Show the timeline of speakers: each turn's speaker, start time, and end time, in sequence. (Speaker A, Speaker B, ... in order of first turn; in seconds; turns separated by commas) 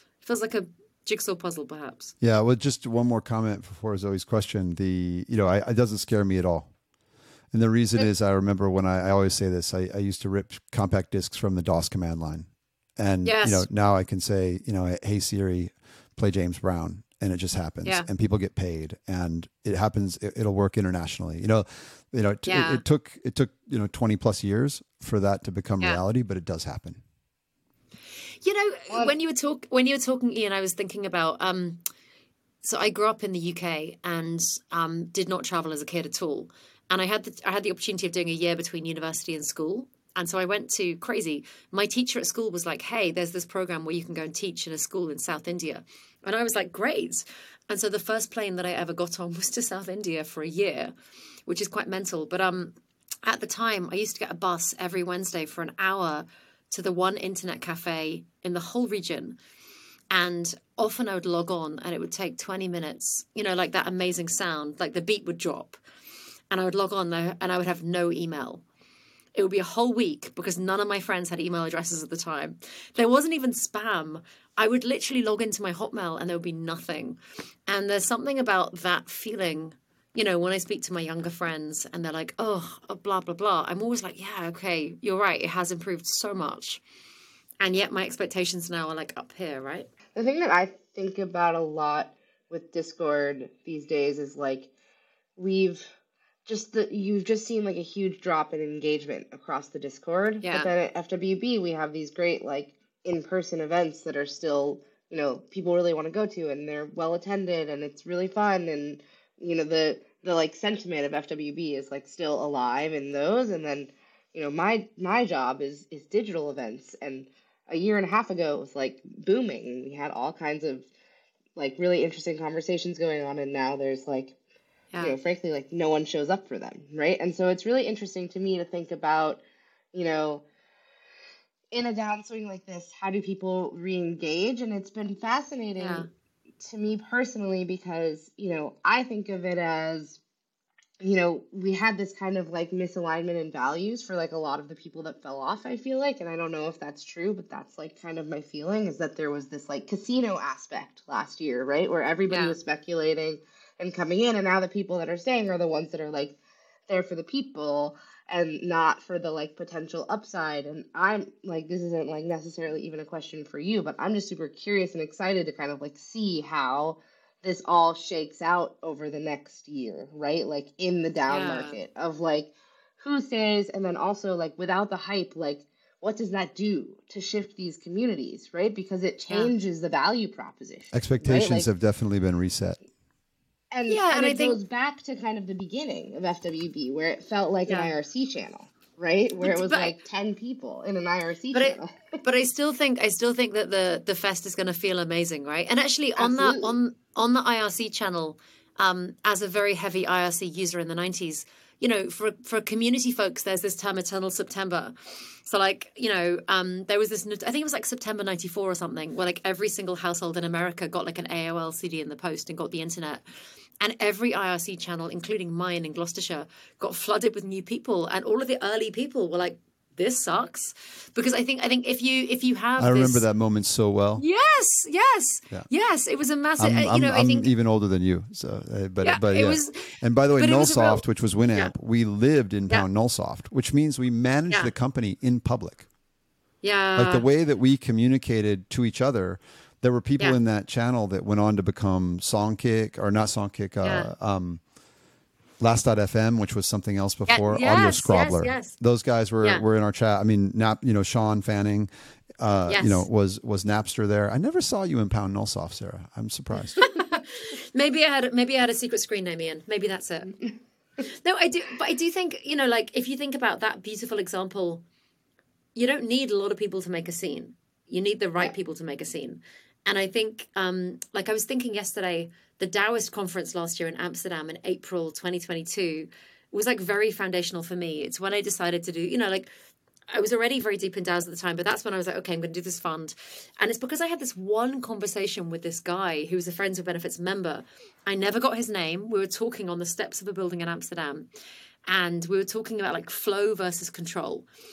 Speaker A: 0.2-2.1, Speaker B: 2.2-6.7, Speaker B: 7.5-27.0, Speaker A: 13.2-13.7, Speaker A: 22.5-22.8, Speaker A: 28.4-31.8, Speaker C: 28.9-29.1, Speaker A: 32.6-50.9, Speaker A: 51.5-59.4, Speaker A: 60.1-65.8, Speaker A: 66.5-68.6, Speaker A: 69.3-86.8, Speaker A: 87.6-89.9, Speaker C: 90.1-94.7, Speaker C: 95.4-95.9, Speaker C: 96.5-120.9, Speaker A: 100.4-100.7, Speaker C: 121.6-124.3, Speaker C: 125.0-129.4, Speaker C: 129.9-130.4, Speaker C: 131.7-136.1, Speaker A: 135.8-136.1, Speaker C: 136.6-140.2, Speaker C: 141.0-156.3, Speaker A: 152.3-152.6, Speaker C: 156.9-181.7, Speaker A: 171.3-171.8, Speaker B: 180.9-182.8, Speaker C: 183.7-191.9, Speaker A: 183.9-184.6, Speaker A: 187.7-187.9, Speaker A: 189.4-189.9, Speaker A: 191.5-204.9, Speaker C: 196.2-196.8, Speaker A: 205.5-213.2, Speaker A: 213.8-223.2, Speaker B: 222.8-224.2, Speaker A: 224.2-227.5, Speaker B: 226.6-235.8, Speaker A: 229.0-231.0, Speaker A: 236.6-237.2, Speaker B: 237.0-244.6, Speaker A: 243.8-244.1, Speaker B: 245.6-256.8, Speaker A: 247.3-248.8, Speaker A: 252.7-253.1, Speaker A: 256.8-260.3, Speaker A: 261.2-264.8, Speaker A: 265.8-279.5, Speaker A: 280.1-291.3, Speaker A: 291.9-294.5